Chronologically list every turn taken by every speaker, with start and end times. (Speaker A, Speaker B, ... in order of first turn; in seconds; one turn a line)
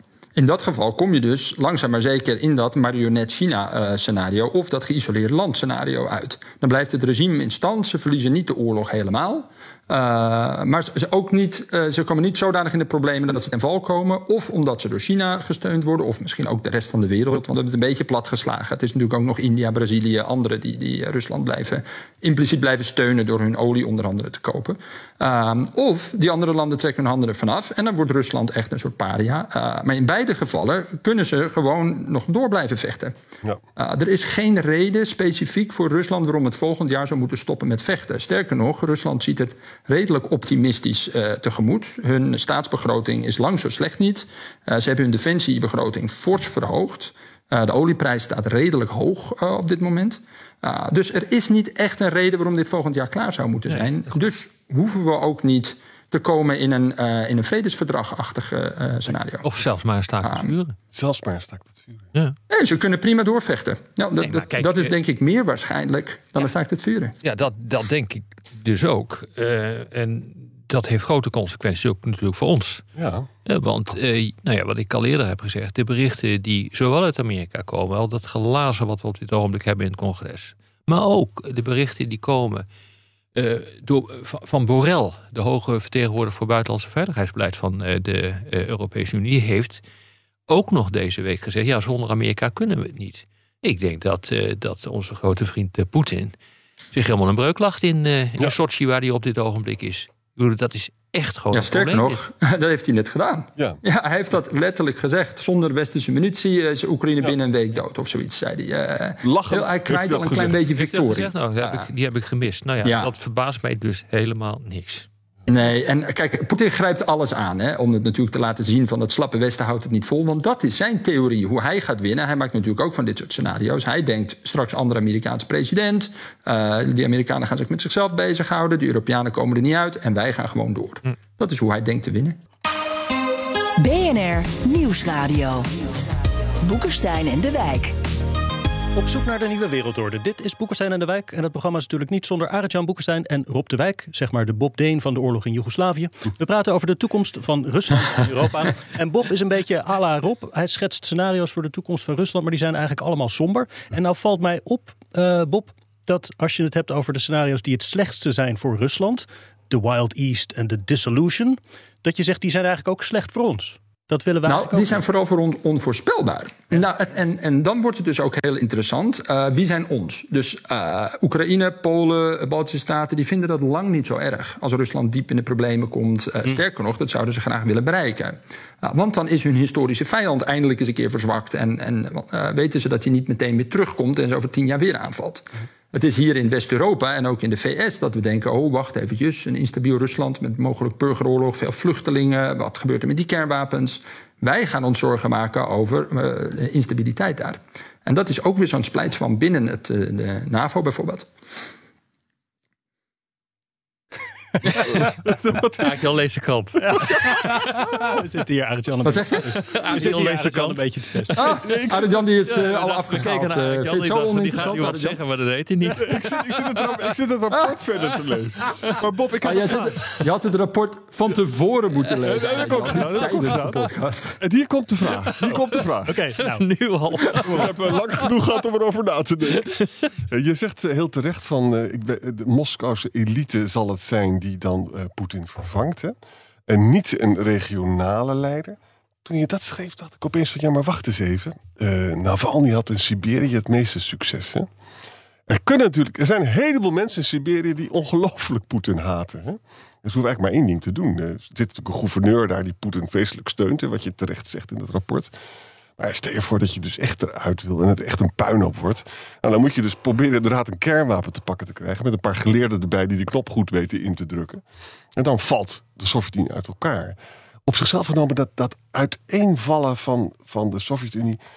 Speaker A: 0.3-33.1
Speaker A: 33.8-59.7
Speaker B: 59.1-60.8
Speaker A: 60.2-60.5
Speaker C: 60.9-62.1
Speaker A: 62.5-67.1
Speaker B: 64.2-65.0
Speaker B: 67.2-72.8
Speaker C: 73.0-73.3
Speaker B: 73.5-82.7
Speaker B: 83.3-89.8
Speaker B: 90.5-96.3
Speaker B: 96.9-102.2
Speaker A: 101.5-111.9
Speaker C: 109.2-110.6
Speaker B: 110.8-115.1
Speaker A: 112.8-113.1
Speaker A: 115.5-132.4
Speaker D: 133.8-135.7
Speaker D: 136.6-137.9
Speaker E: 138.9-165.0
Speaker A: 164.4-201.3
Speaker B: 204.7-205.0
Speaker C: 205.0-206.0
Speaker B: 205.7-208.1
Speaker E: 206.8-211.5
Speaker A: 209.0-209.5
Speaker B: 209.5-211.4
Speaker A: 211.4-215.2
Speaker C: 211.6-212.2
Speaker B: 212.4-217.1
Speaker C: 216.0-220.0
Speaker B: 218.6-219.0
Speaker A: 219.4-224.4
Speaker C: 222.2-223.9
Speaker C: 224.4-226.2
Speaker B: 225.3-225.9
Speaker E: 226.1-226.7
Speaker B: 226.4-228.3
Speaker C: 227.3-236.2
Speaker B: 229.5-230.1
Speaker C: 236.7-244.7
Speaker C: 245.5-255.3
Speaker C: 256.0-264.6
Speaker C: 265.1-271.4